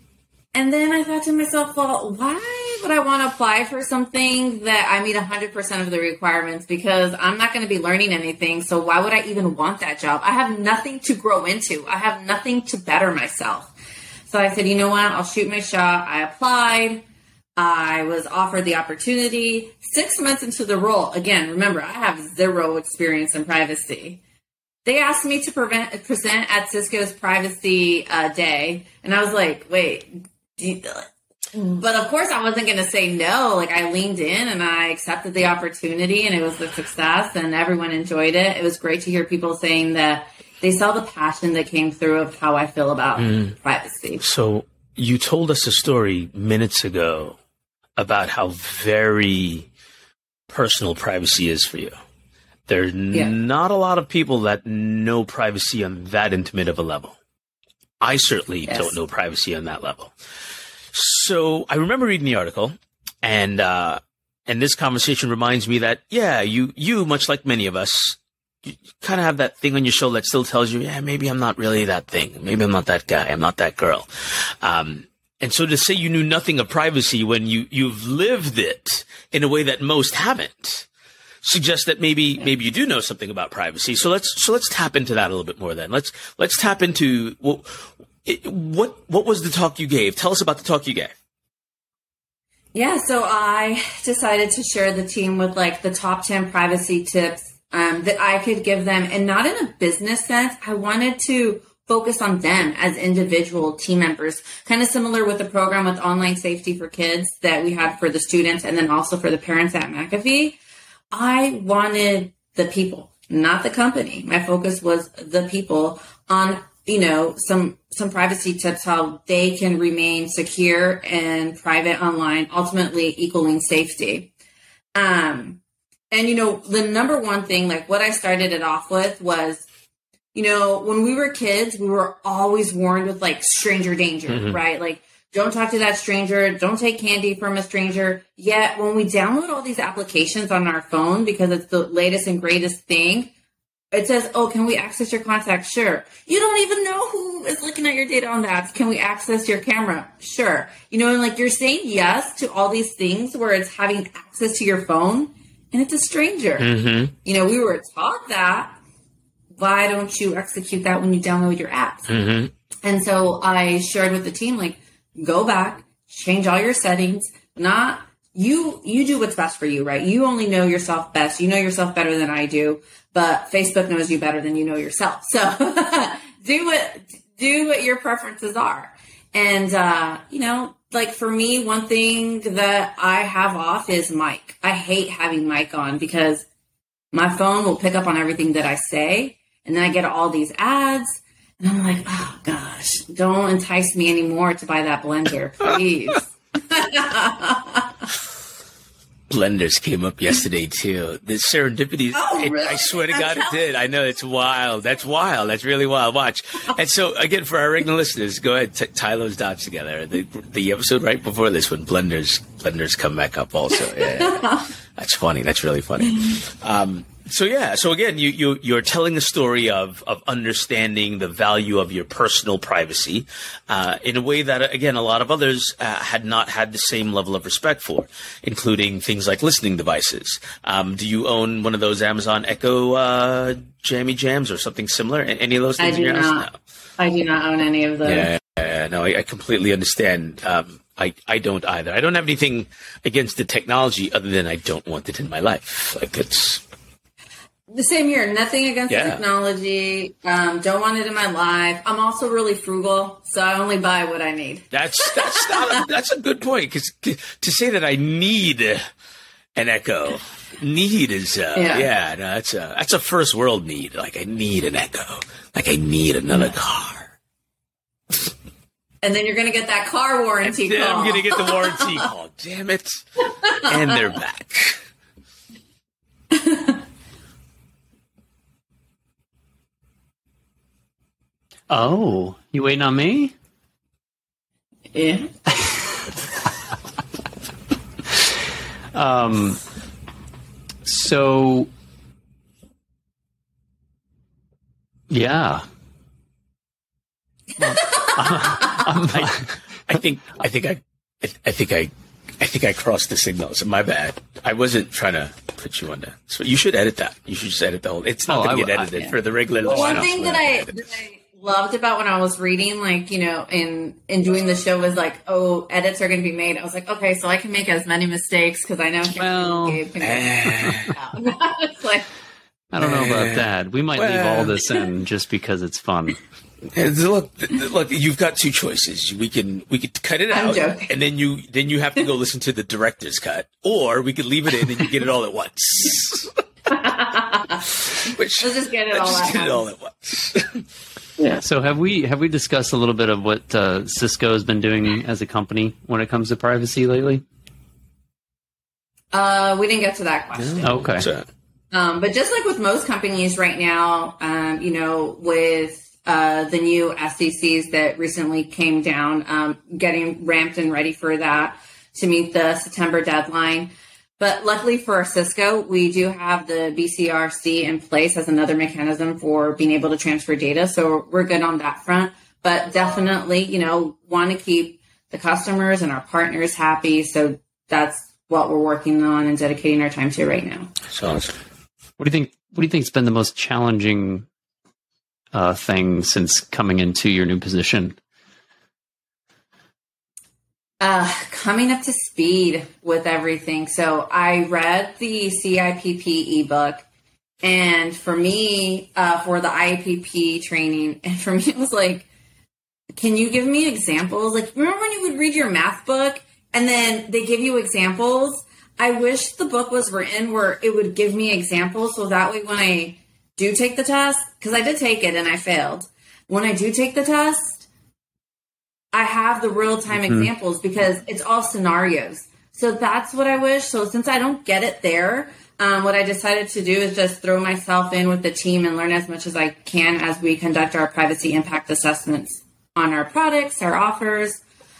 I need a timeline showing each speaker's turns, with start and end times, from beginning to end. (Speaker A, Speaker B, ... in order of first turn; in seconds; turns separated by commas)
Speaker A: 0.5-13.7, Speaker A: 14.3-17.0, Speaker A: 17.6-24.2, Speaker A: 24.9-44.2, Speaker B: 43.2-43.5, Speaker B: 44.2-47.4, Speaker B: 48.0-49.7, Speaker B: 50.5-51.9, Speaker B: 52.7-57.2, Speaker B: 58.0-60.1, Speaker A: 58.7-58.9, Speaker B: 60.9-80.9, Speaker B: 81.4-91.1, Speaker A: 92.7-110.6, Speaker A: 111.1-124.3, Speaker A: 125.0-125.6, Speaker A: 126.1-129.7, Speaker A: 130.3-143.3, Speaker B: 134.3-134.6, Speaker A: 143.9-156.7, Speaker B: 156.6-157.2, Speaker A: 157.2-158.8, Speaker A: 159.6-162.1, Speaker B: 162.1-162.5, Speaker A: 162.8-186.4, Speaker A: 187.1-197.9, Speaker B: 199.3-236.5, Speaker A: 202.1-203.6, Speaker A: 214.2-214.7, Speaker A: 235.8-236.5, Speaker A: 237.0-238.3, Speaker B: 238.0-246.6, Speaker A: 247.7-255.8, Speaker B: 248.9-249.2, Speaker B: 254.7-258.8, Speaker B: 259.6-267.1, Speaker A: 261.6-261.9, Speaker A: 269.0-272.1, Speaker B: 270.4-273.0, Speaker B: 273.6-274.8, Speaker A: 276.3-276.8, Speaker C: 281.7-283.3, Speaker A: 284.9-285.3, Speaker C: 288.9-289.6, Speaker C: 290.9-291.7, Speaker C: 295.1-295.6, Speaker C: 297.6-299.5, Speaker A: 297.7-298.9, Speaker B: 299.1-310.9, Speaker C: 308.3-309.1, Speaker A: 309.6-322.1, Speaker C: 319.2-319.8, Speaker B: 320.0-320.9, Speaker C: 322.7-326.2, Speaker B: 322.8-324.6, Speaker B: 326.7-336.3, Speaker A: 330.3-331.0, Speaker A: 336.7-337.6, Speaker B: 338.0-340.6, Speaker A: 338.4-339.7, Speaker A: 341.2-341.4, Speaker C: 341.4-347.2, Speaker A: 349.1-350.8, Speaker B: 350.4-351.3, Speaker C: 350.6-351.1, Speaker A: 351.7-380.7, Speaker B: 380.9-381.4, Speaker C: 382.0-384.3, Speaker C: 385.3-388.0, Speaker A: 390.8-396.8, Speaker A: 397.4-402.1, Speaker A: 403.0-417.7, Speaker A: 418.9-434.4, Speaker C: 420.0-420.3